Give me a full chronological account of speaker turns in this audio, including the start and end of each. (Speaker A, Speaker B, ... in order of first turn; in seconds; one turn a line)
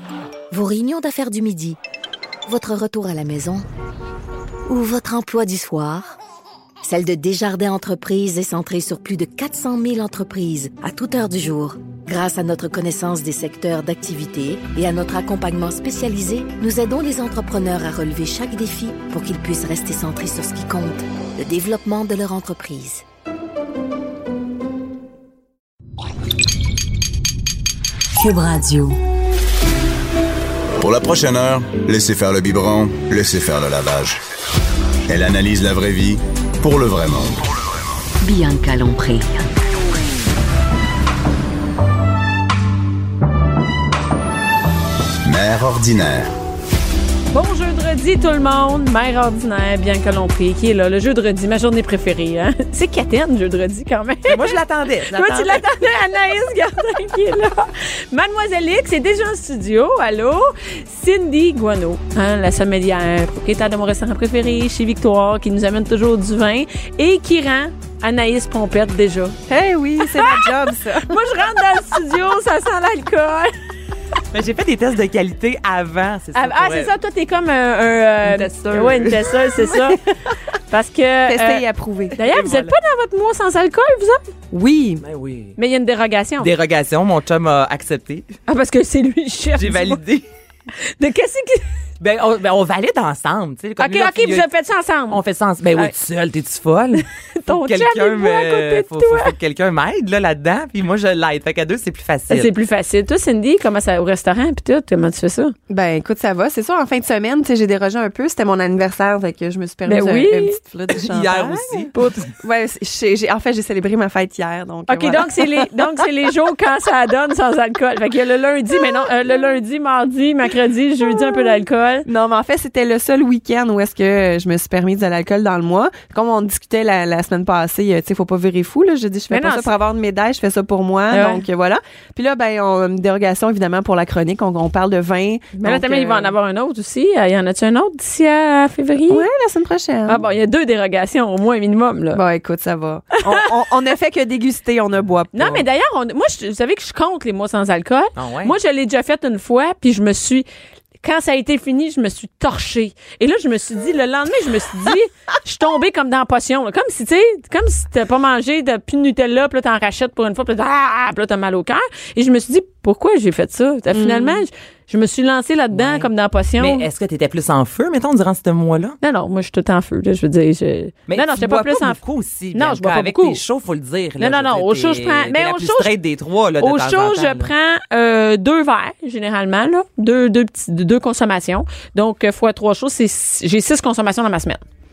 Speaker A: 0.5-1.8
Speaker A: 2.5-3.6
Speaker A: 4.7-6.2
Speaker A: 6.8-23.0
Speaker A: 28.1-29.0
Speaker B: 30.8-34.2
Speaker B: 35.1-37.5
Speaker A: 38.2-39.5
Speaker B: 45.2-46.3
Speaker C: 47.3-54.6
Speaker D: 54.3-55.6
Speaker C: 55.1-69.4
Speaker E: 69.5-71.2
Speaker C: 70.0-73.5
Speaker D: 74.3-76.9
Speaker C: 76.3-80.0
Speaker D: 78.4-79.0
Speaker E: 78.6-79.1
Speaker C: 80.7-84.2
Speaker E: 81.2-82.2
Speaker D: 82.2-82.7
Speaker E: 84.5-85.0
Speaker D: 85.0-85.5
Speaker C: 85.6-86.5
Speaker D: 86.4-88.3
Speaker C: 88.5-90.0
Speaker D: 89.6-90.2
Speaker C: 90.8-91.7
Speaker D: 92.0-94.5
Speaker C: 93.8-95.2
Speaker D: 95.1-102.5
Speaker C: 97.3-99.3
Speaker C: 102.3-105.5
Speaker E: 105.7-115.8
Speaker C: 109.9-110.6
Speaker D: 110.9-111.9
Speaker C: 111.9-112.3
Speaker C: 114.9-122.1
Speaker E: 122.0-136.3
Speaker C: 129.3-129.7
Speaker C: 131.1-131.4
Speaker C: 135.6-139.3
Speaker E: 139.1-140.2
Speaker C: 140.1-142.2
Speaker E: 142.1-145.6
Speaker C: 145.3-150.4
Speaker D: 148.2-148.5
Speaker C: 151.0-166.8
Speaker E: 163.9-164.4
Speaker D: 165.7-169.0
Speaker C: 169.0-172.0
Speaker D: 171.1-177.5
Speaker C: 172.5-173.4
Speaker C: 174.2-175.9
Speaker C: 176.6-184.6